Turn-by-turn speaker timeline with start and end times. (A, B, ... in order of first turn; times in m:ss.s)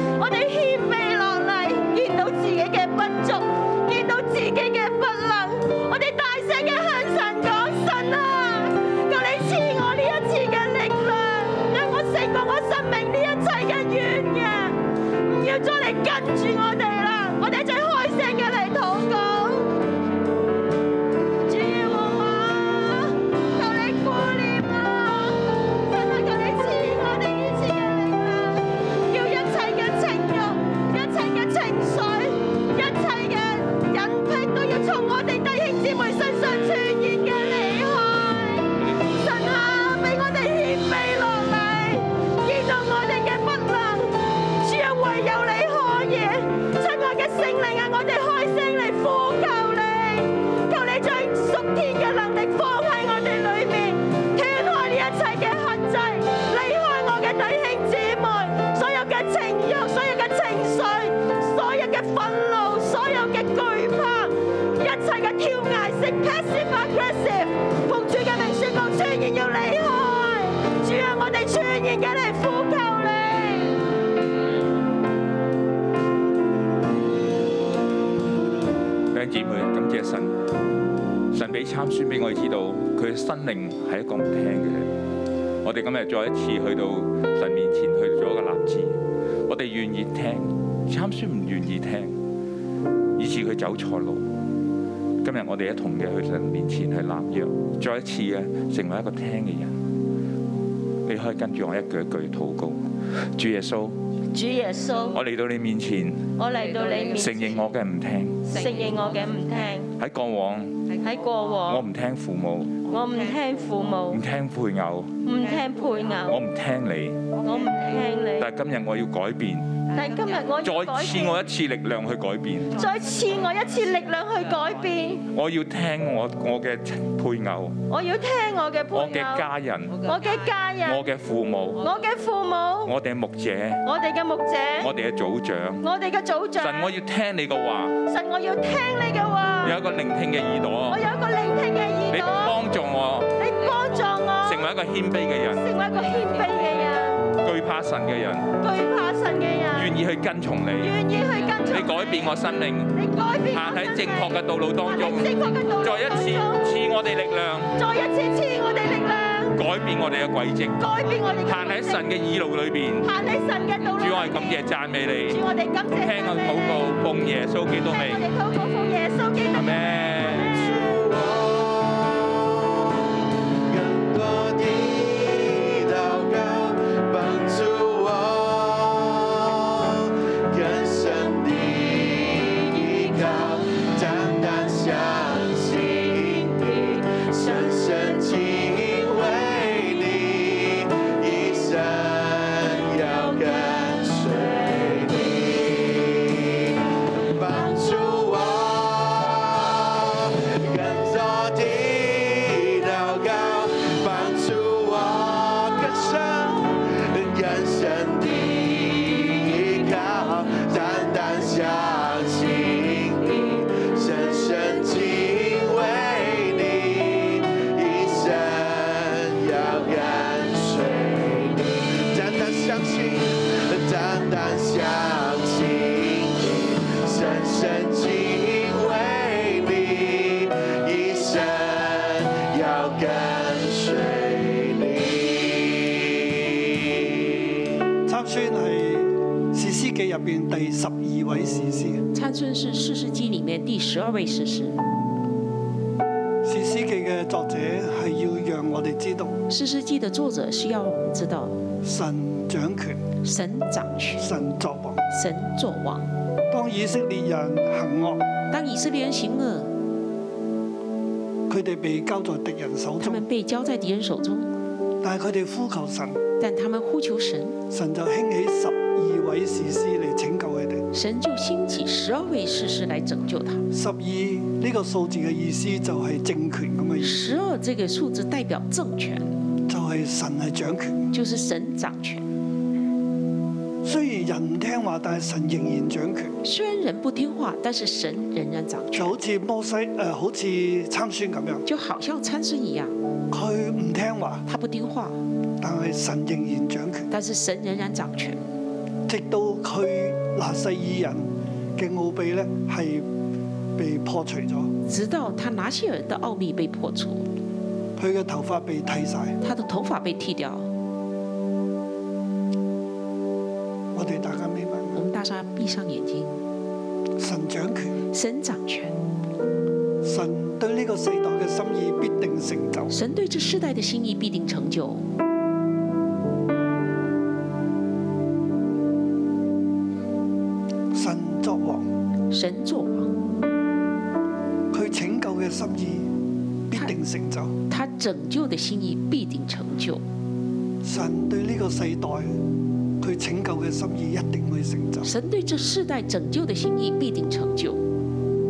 0:00.2-0:19.8 A
0:21.5-1:13.8 A
1:19.1-1:20.4 B
1:21.3-1:24.9 B
1:25.6-1:32.2 B
1:33.2-1:34.2 B
1:35.2-1:39.8 B
1:41.0-1:42.8 B
1:43.4-1:44.0 B
1:44.3-1:45.2 A
1:45.1-1:46.3 B
1:46.4-1:47.7 A
1:47.1-1:48.5 B
1:48.4-1:49.9 A
1:50.0-1:50.9 B
1:51.0-1:51.9 A
1:51.7-1:52.9 B
1:52.9-1:54.2 A
1:54.1-1:55.2 B
1:55.2-1:56.4 A
1:56.3-1:57.4 B
1:57.4-1:58.5 A
1:58.4-1:59.9 B
1:59.9-2:01.5 A
2:00.6-2:02.8 B
2:02.8-2:05.3 A
2:05.3-2:07.8 B
2:07.9-2:09.5 A
2:08.9-2:10.1 B
2:10.0-2:11.1 A
2:10.8-2:11.8 B
2:11.8-2:13.0 A
2:12.8-2:13.8 B
2:13.8-2:14.9 A
2:14.8-2:15.8 B
2:15.8-2:16.9 A
2:16.6-2:18.0 B
2:18.1-2:19.8 A
2:19.6-2:21.0 B
2:20.9-2:22.6 A
2:22.1-2:23.3 B
2:23.4-2:24.7 A
2:24.4-2:25.7 B
2:25.5-2:27.3 A
2:27.3-2:28.5 B
2:28.6-2:30.0 A
2:29.8-2:31.0 B
2:30.8-2:32.3 A
2:31.7-2:33.0 B
2:33.0-2:36.7 A
2:33.5-2:37.8 B
2:37.8-2:39.6 A
2:39.5-2:40.8 B
2:40.8-2:42.0 A
2:41.4-2:43.1 B
2:43.0-2:44.6 A
2:44.0-2:45.4 B
2:45.3-2:47.0 A
2:45.9-2:48.2 B
2:47.8-2:50.8 A
2:49.5-2:50.5 B
2:50.5-2:53.0 C
2:53.6-3:16.6 C
3:17.1-3:57.1 C
3:58.1-4:02.0 D
4:02.1-4:04.8 E
4:06.4-4:09.4 D
4:09.5-4:11.6 E
4:11.8-4:13.0 D
4:13.2-4:14.3 E
4:14.2-4:15.0 D
4:15.1-4:16.1 E
4:16.5-4:18.2 D
4:18.5-4:19.7 E
4:21.5-4:23.3 D
4:23.0-4:24.5 E
4:25.0-4:26.2 D
4:26.4-4:27.6 E
4:27.7-4:30.8 D
4:30.9-4:33.6 E
4:33.7-4:37.3 D
4:37.0-4:39.3 E
4:39.7-4:41.1 D
4:41.1-4:42.3 E
4:43.8-4:46.4 D
4:46.4-4:49.2 E
4:48.9-4:51.6 D
4:51.7-4:53.0 E
4:53.3-4:54.4 D
4:54.5-4:55.2 E
4:55.6-4:57.1 D
4:57.1-4:58.4 E
4:59.1-5:03.1 D
5:03.8-5:04.7 D
5:04.9-5:07.2 E
5:08.0-5:09.4 D
5:09.4-5:10.7 E
5:13.9-5:15.0 D
5:14.9-5:16.4 E
5:17.2-5:18.0 D
5:18.1-5:19.0 E
5:20.0-5:22.9 D
5:22.9-5:25.0 E
5:30.9-5:31.9 D
5:32.3-5:33.1 E
5:34.7-5:36.1 D
5:36.7-5:37.5 D
5:37.7-5:40.0 E
5:40.8-5:42.4 D
5:43.0-5:45.1 D
5:45.0-5:47.8 E